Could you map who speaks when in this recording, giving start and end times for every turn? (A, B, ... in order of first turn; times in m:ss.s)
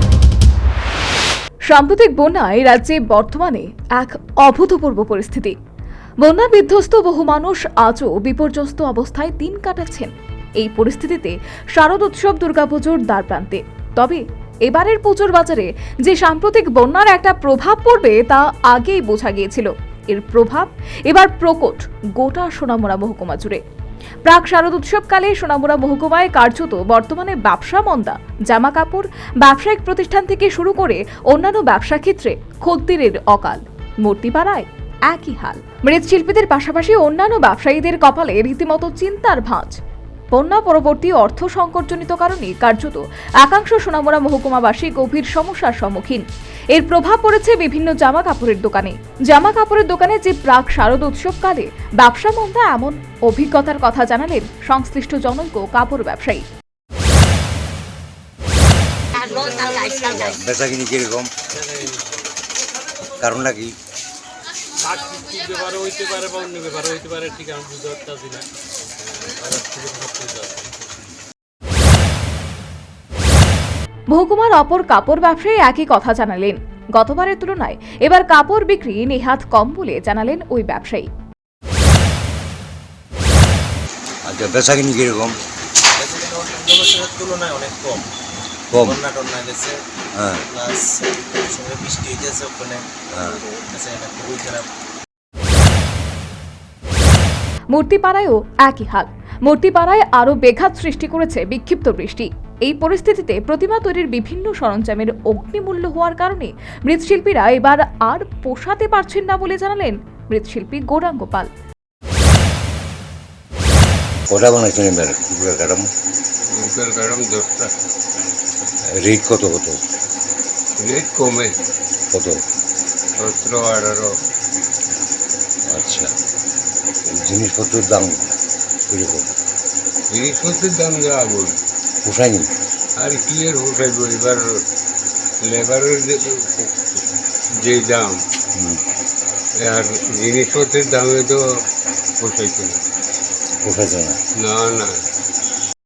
0:01.7-0:05.6 A
0:06.2-0:23.6 A
0:24.3-0:39.8 A
0:40.3-0:46.2 A
0:46.7-0:56.4 A
0:59.6-1:01.3 B
1:01.6-1:02.3 C
1:03.2-1:03.7 B
1:04.8-1:08.5 C
1:09.3-1:10.8 C
1:14.1-1:21.1 A
1:24.3-1:25.4 B
1:26.0-1:28.1 D
1:28.7-1:29.0 B
1:28.8-1:29.8 D
1:30.5-1:32.8 D
1:33.1-1:33.4 B
1:33.7-1:34.7 D
1:37.7-1:51.5 A
1:54.3-1:55.9 B
1:56.6-1:57.7 E
1:59.0-1:59.8 B
2:00.8-2:01.5 E
2:02.1-2:02.4 B
2:03.2-2:04.1 E
2:05.7-2:06.1 B
2:07.1-2:08.4 B
2:08.9-2:09.4 B
2:10.1-2:11.6 E
2:12.0-2:12.5 B
2:13.0-2:14.4 E
2:15.4-2:16.7 E
2:17.6-2:18.2 E
2:18.6-2:18.8 B
2:19.6-2:21.4 E
2:22.2-2:22.8 E
2:23.6-2:24.2 B
2:24.4-2:25.0 E